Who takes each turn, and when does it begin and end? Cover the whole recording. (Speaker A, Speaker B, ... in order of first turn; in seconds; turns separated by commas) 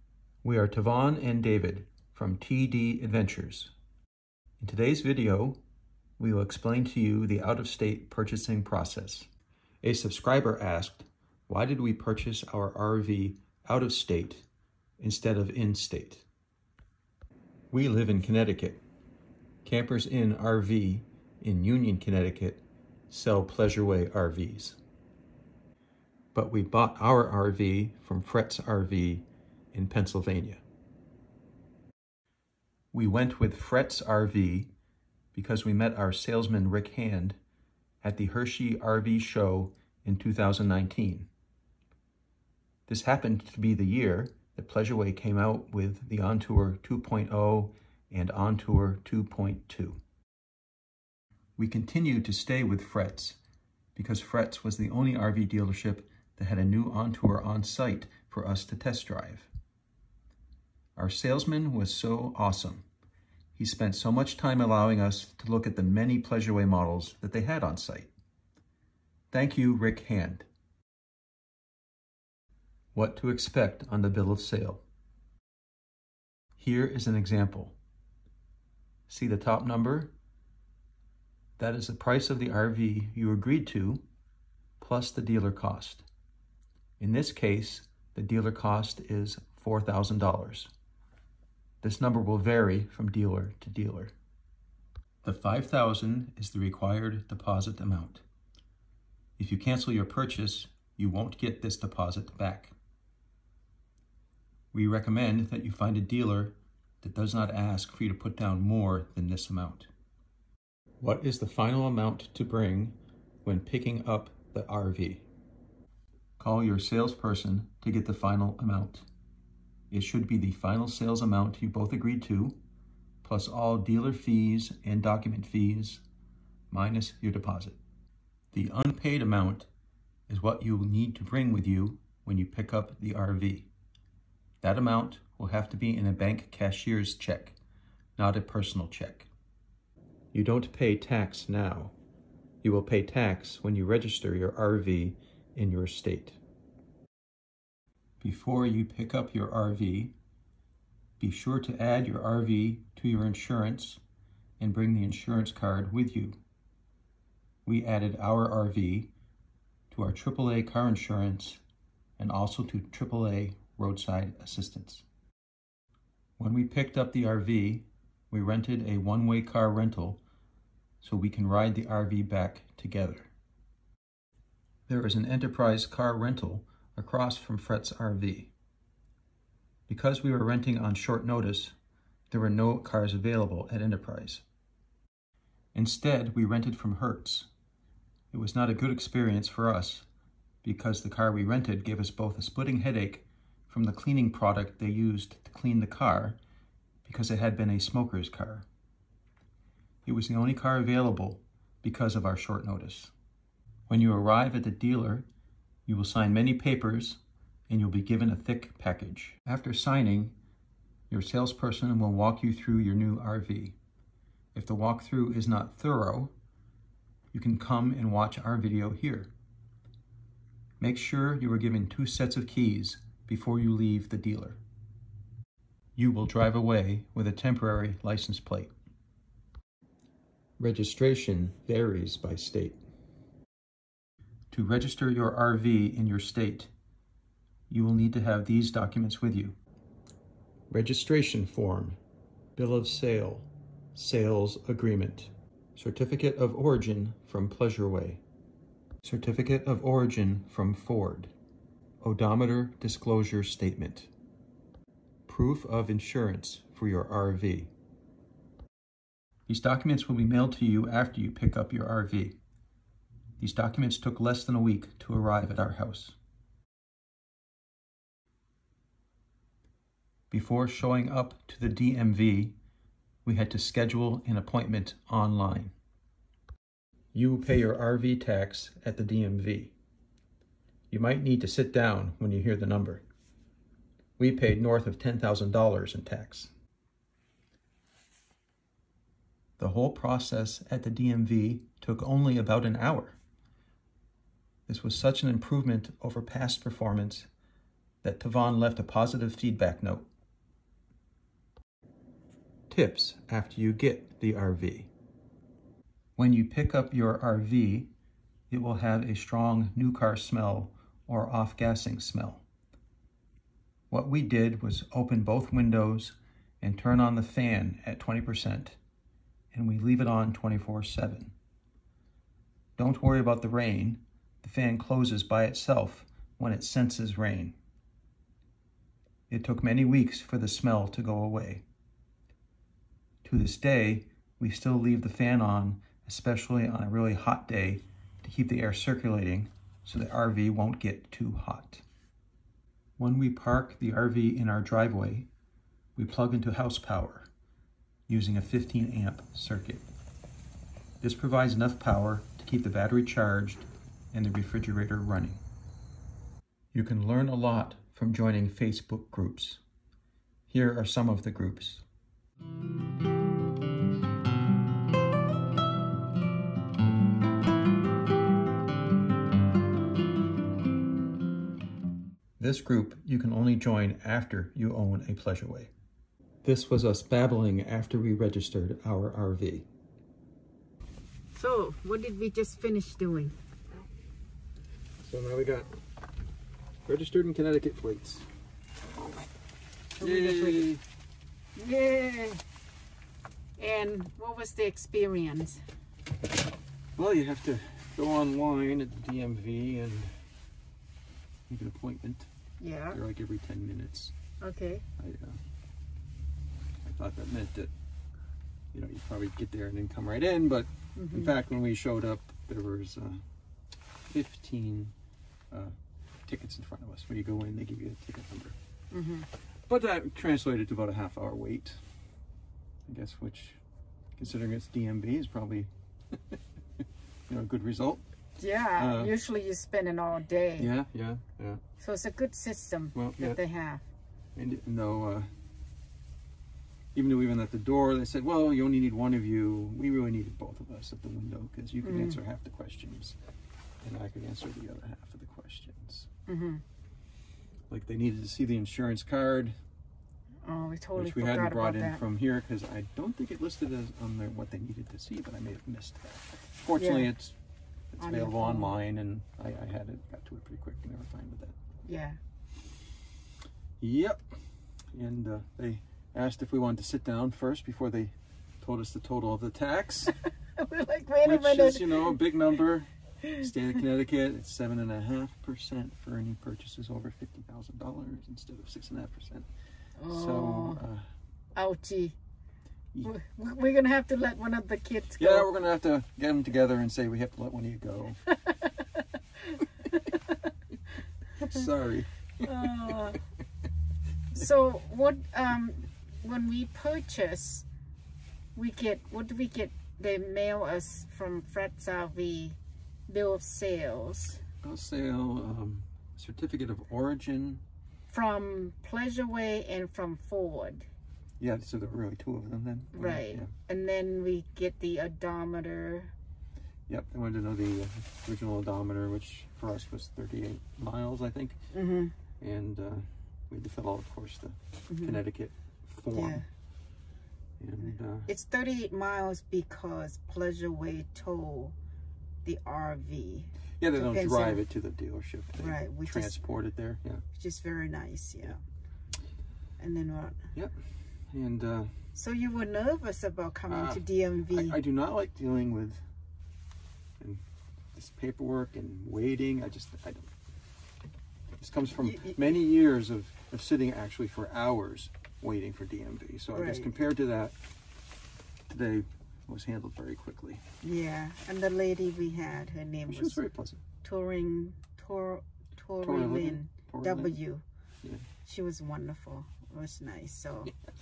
Speaker A: 0.4-3.7, Speaker A: 4.6-5.6, Speaker A: 6.2-9.3, Speaker A: 9.8-14.4, Speaker A: 15.0-16.2, Speaker A: 17.7-18.8, Speaker A: 19.6-24.8, Speaker A: 26.3-30.6, Speaker A: 32.9-34.7, Speaker A: 35.3-37.4, Speaker A: 38.0-41.3, Speaker A: 42.9-50.0, Speaker A: 51.6-53.4, Speaker A: 53.9-59.5, Speaker A: 61.0-62.8, Speaker A: 63.5-68.1, Speaker A: 69.3-70.5, Speaker A: 72.9-74.8, Speaker A: 76.6-77.8, Speaker A: 79.1-80.1, Speaker A: 81.6-84.0, Speaker A: 84.8-86.1, Speaker A: 87.0-90.7, Speaker A: 91.8-94.1, Speaker A: 95.2-98.2, Speaker A: 99.4-102.7, Speaker A: 104.7-109.9, Speaker A: 111.0-115.3, Speaker A: 116.4-119.1, Speaker A: 119.9-122.6, Speaker A: 123.2-126.0, Speaker A: 126.7-127.8, Speaker A: 128.5-129.7, Speaker A: 130.3-133.7, Speaker A: 134.6-137.6, Speaker A: 138.2-139.3, Speaker A: 140.3-141.9, Speaker A: 142.6-146.4, Speaker A: 148.2-150.1, Speaker A: 151.2-154.0, Speaker A: 154.6-156.4, Speaker A: 157.6-159.1, Speaker A: 159.9-161.6, Speaker A: 162.2-165.0, Speaker A: 166.4-170.2, Speaker A: 171.0-173.3, Speaker A: 174.9-178.5, Speaker A: 179.9-181.8, Speaker A: 182.3-184.4, Speaker A: 185.7-187.5, Speaker A: 188.3-190.1, Speaker A: 190.6-196.4, Speaker A: 197.0-198.7, Speaker A: 200.1-203.1, Speaker A: 203.9-205.2, Speaker A: 205.8-210.3, Speaker A: 211.1-213.8, Speaker A: 214.5-216.3, Speaker A: 217.3-219.3, Speaker A: 220.8-224.6, Speaker A: 225.9-228.7, Speaker A: 230.6-232.8, Speaker A: 234.5-236.7, Speaker A: 237.7-239.6, Speaker A: 240.7-242.0, Speaker A: 242.6-248.2, Speaker A: 249.0-251.3, Speaker A: 252.0-254.1, Speaker A: 255.3-257.7, Speaker A: 259.5-262.4, Speaker A: 263.4-266.2, Speaker A: 270.3-272.6, Speaker A: 273.2-275.7, Speaker A: 277.1-279.7, Speaker A: 280.9-283.0, Speaker A: 284.2-286.5, Speaker A: 289.6-293.2, Speaker A: 294.7-297.3, Speaker A: 298.0-300.1, Speaker A: 302.7-304.9, Speaker A: 306.2-307.9, Speaker A: 308.5-312.4, Speaker A: 313.9-318.8, Speaker A: 319.5-321.3, Speaker A: 322.8-327.6, Speaker A: 329.3-331.6, Speaker A: 333.2-341.8, Speaker A: 343.0-345.3, Speaker A: 345.9-347.3, Speaker A: 348.1-349.9, Speaker A: 351.0-355.4, Speaker A: 356.7-359.6, Speaker A: 360.5-361.8, Speaker A: 372.4-375.7, Speaker A: 376.4-379.7, Speaker B: 381.3-383.4, Speaker A: 385.0-385.7, Speaker A: 386.9-388.2, Speaker B: 389.9-390.7, Speaker A: 390.0-390.8, Speaker B: 391.6-392.4, Speaker B: 393.6-395.6, Speaker A: 396.9-400.1, Speaker A: 401.5-402.3, Speaker B: 402.6-403.0, Speaker A: 402.9-404.1, Speaker B: 404.4-404.8, Speaker A: 405.0-405.4, Speaker A: 406.8-407.7, Speaker A: 408.7-413.2, Speaker B: 410.9-411.3, Speaker A: 414.1-414.9, Speaker A: 416.3-418.6, Speaker B: 418.9-419.3, Speaker A: 419.7-421.8, Speaker A: 422.9-423.6, Speaker A: 424.2-425.7, Speaker A: 427.3-428.0, Speaker B: 428.4-430.7, Speaker A: 428.8-429.1, Speaker A: 430.6-431.6, Speaker B: 431.8-433.8, Speaker A: 432.9-433.4, Speaker A: 434.4-435.3, Speaker A: 436.9-443.1, Speaker B: 441.8-442.2, Speaker A: 443.8-446.1, Speaker B: 446.3-446.6, Speaker A: 447.7-449.6, Speaker B: 450.4-452.0, Speaker A: 450.9-457.4, Speaker B: 456.8-457.1, Speaker A: 457.9-461.6, Speaker B: 458.0-458.7, Speaker B: 461.8-462.2, Speaker A: 463.8-464.2, Speaker A: 464.9-470.1, Speaker B: 470.6-472.2, Speaker A: 471.2-479.5, Speaker B: 480.0-480.8, Speaker A: 480.1-481.0, Speaker B: 481.5-482.1, Speaker B: 483.0-485.5, Speaker A: 485.2-488.2, Speaker B: 488.3-489.0, Speaker A: 491.4-493.0, Speaker B: 492.4-493.2, Speaker B: 494.3-497.6, Speaker B: 498.5-504.4, Speaker A: 504.6-507.6, Speaker B: 508.1-510.9, Speaker A: 511.4-513.5, Speaker B: 512.9-516.1, Speaker A: 516.9-521.6, Speaker B: 521.7-522.1, Speaker A: 522.4-526.4, Speaker B: 524.9-525.2, Speaker B: 526.1-526.4, Speaker A: 527.6-528.3, Speaker B: 528.3-531.8, Speaker B: 532.4-534.6, Speaker A: 533.8-537.2, Speaker B: 535.6-536.4, Speaker B: 537.3-538.6, Speaker B: 539.8-540.4, Speaker A: 541.3-541.9, Speaker B: 542.1-544.8, Speaker A: 543.7-546.0, Speaker A: 547.9-550.3, Speaker A: 551.6-557.5, Speaker B: 552.0-552.4, Speaker B: 556.5-556.9, Speaker A: 558.7-560.6, Speaker B: 560.8-563.4, Speaker A: 563.1-563.8, Speaker B: 564.0-567.6, Speaker A: 566.0-567.4, Speaker B: 568.4-570.7